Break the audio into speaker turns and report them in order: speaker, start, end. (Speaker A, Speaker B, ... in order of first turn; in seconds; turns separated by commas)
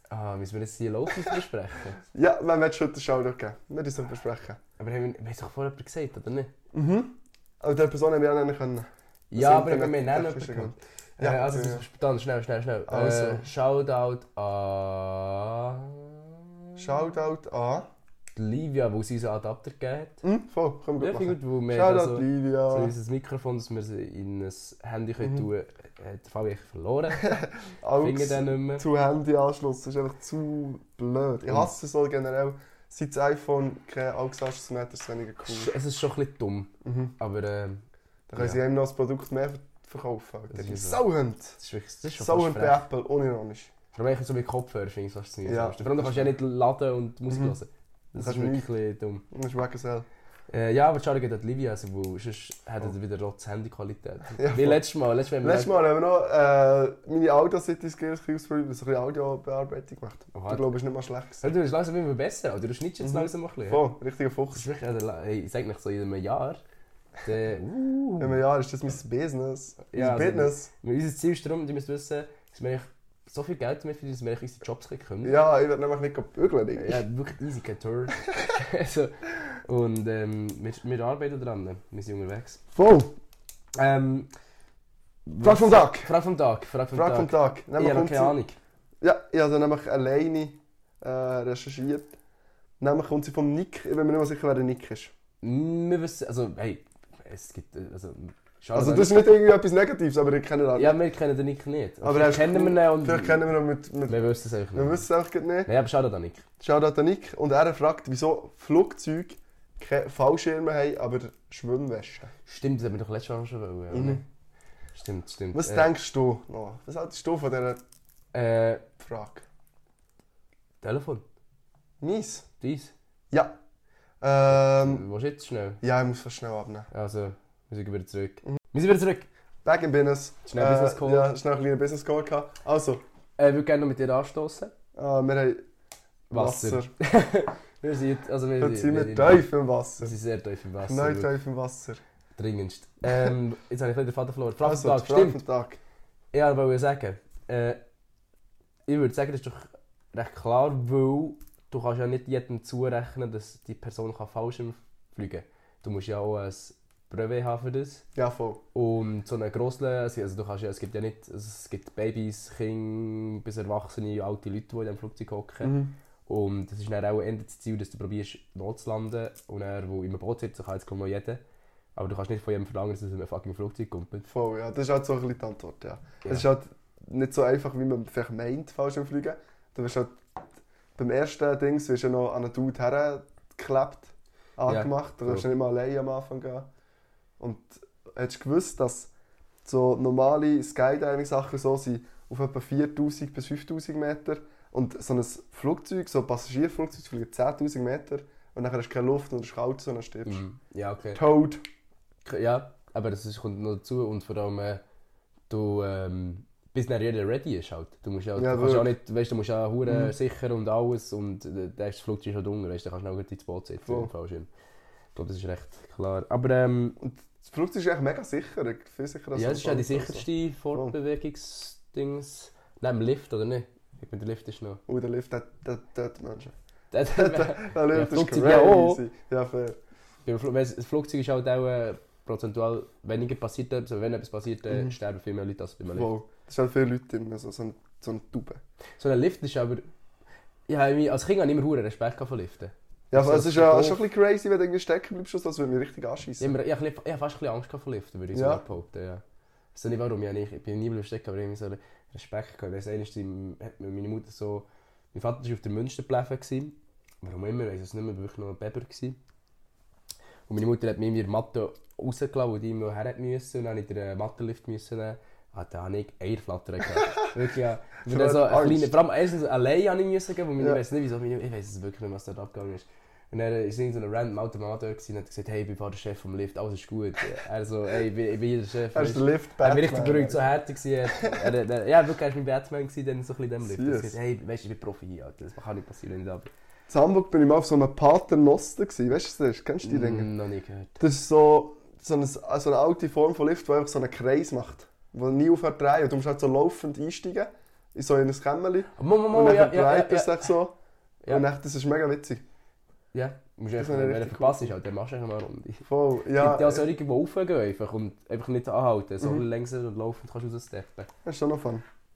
Speaker A: 0.1-2.0, Speaker B: 2.1-4.6, Speaker A: 4.8-6.5, Speaker B: 6.7-11.8, Speaker A: 9.3-16.2, Speaker B: 12.9-13.4, Speaker B: 16.8-17.9, Speaker A: 18.4-20.2, Speaker B: 20.2-22.9, Speaker A: 21.0-27.4, Speaker B: 27.2-35.7, Speaker A: 28.0-28.8, Speaker A: 35.4-37.8, Speaker B: 36.8-37.1, Speaker B: 38.3-41.6, Speaker A: 40.5-41.0, Speaker A: 41.6-42.8, Speaker B: 42.2-43.7, Speaker A: 43.9-49.2, Speaker B: 45.4-46.3, Speaker B: 47.3-47.6, Speaker B: 48.1-48.7, Speaker B: 49.3-50.1, Speaker A: 50.5-55.8, Speaker B: 54.4-54.8, Speaker B: 55.4-61.4, Speaker A: 60.3-60.6, Speaker A: 61.4-63.9, Speaker B: 63.0-64.6, Speaker A: 64.5-66.6, Speaker A: 67.2-68.4, Speaker B: 68.2-70.7, Speaker A: 69.9-75.4, Speaker B: 75.2-77.0, Speaker A: 76.8-82.6, Speaker B: 82.7-83.1, Speaker A: 83.8-84.3, Speaker A: 85.2-88.5, Speaker B: 85.4-86.1, Speaker B: 86.9-88.4, Speaker B: 89.0-92.2, Speaker B: 92.8-95.1, Speaker A: 95.4-99.3, Speaker B: 98.7-101.0, Speaker A: 100.7-103.4, Speaker B: 102.0-104.2, Speaker A: 104.1-105.0, Speaker B: 104.7-105.7, Speaker A: 105.7-106.5, Speaker B: 106.6-112.3, Speaker A: 112.5-114.2, Speaker B: 113.9-114.2, Speaker A: 114.9-115.9, Speaker B: 115.5-117.8, Speaker A: 118.3-118.8, Speaker B: 119.0-119.4, Speaker A: 120.8-121.2, Speaker B: 122.0-122.5, Speaker A: 122.6-122.9, Speaker B: 123.3-123.5, Speaker B: 124.2-125.0, Speaker A: 124.5-125.8, Speaker B: 125.8-126.9, Speaker A: 126.9-129.3, Speaker B: 129.6-133.0, Speaker A: 130.5-131.3, Speaker A: 133.4-134.7, Speaker B: 134.9-135.6, Speaker A: 136.3-139.4, Speaker B: 136.3-136.9, Speaker B: 138.6-140.1, Speaker A: 140.0-141.3, Speaker B: 140.8-142.0, Speaker A: 142.3-145.4, Speaker B: 144.6-145.8, Speaker A: 146.3-147.8, Speaker A: 148.9-158.0, Speaker B: 158.1-158.6, Speaker A: 158.7-171.4, Speaker B: 165.6-165.9, Speaker A: 171.9-174.3, Speaker B: 174.3-180.4, Speaker B: 180.9-186.7, Speaker A: 184.7-185.4, Speaker B: 187.4-189.1, Speaker B: 189.6-200.4, Speaker A: 200.2-201.2, Speaker B: 201.1-201.6, Speaker A: 202.2-204.8, Speaker A: 205.5-214.5, Speaker B: 208.4-208.9, Speaker B: 209.8-210.1, Speaker B: 213.8-214.1, Speaker A: 215.1-217.0, Speaker B: 217.0-220.9, Speaker A: 219.3-224.8, Speaker B: 224.9-226.5, Speaker A: 226.9-229.0, Speaker B: 227.1-229.8, Speaker A: 230.2-236.1, Speaker B: 234.7-234.9, Speaker B: 235.9-238.6, Speaker A: 239.0-239.9, Speaker A: 240.7-244.0, Speaker B: 243.1-246.5, Speaker A: 246.4-249.2, Speaker B: 248.3-248.6, Speaker A: 249.7-259.2, Speaker A: 260.5-286.5, Speaker B: 268.0-268.9, Speaker B: 278.9-280.4, Speaker B: 281.2-281.5, Speaker B: 283.6-284.1, Speaker B: 286.9-290.3, Speaker A: 289.8-291.0, Speaker B: 291.0-300.7, Speaker A: 298.9-300.5, Speaker B: 301.3-302.4, Speaker A: 303.1-311.1, Speaker B: 303.8-304.7, Speaker B: 305.9-306.9, Speaker B: 309.2-309.4, Speaker B: 311.2-311.8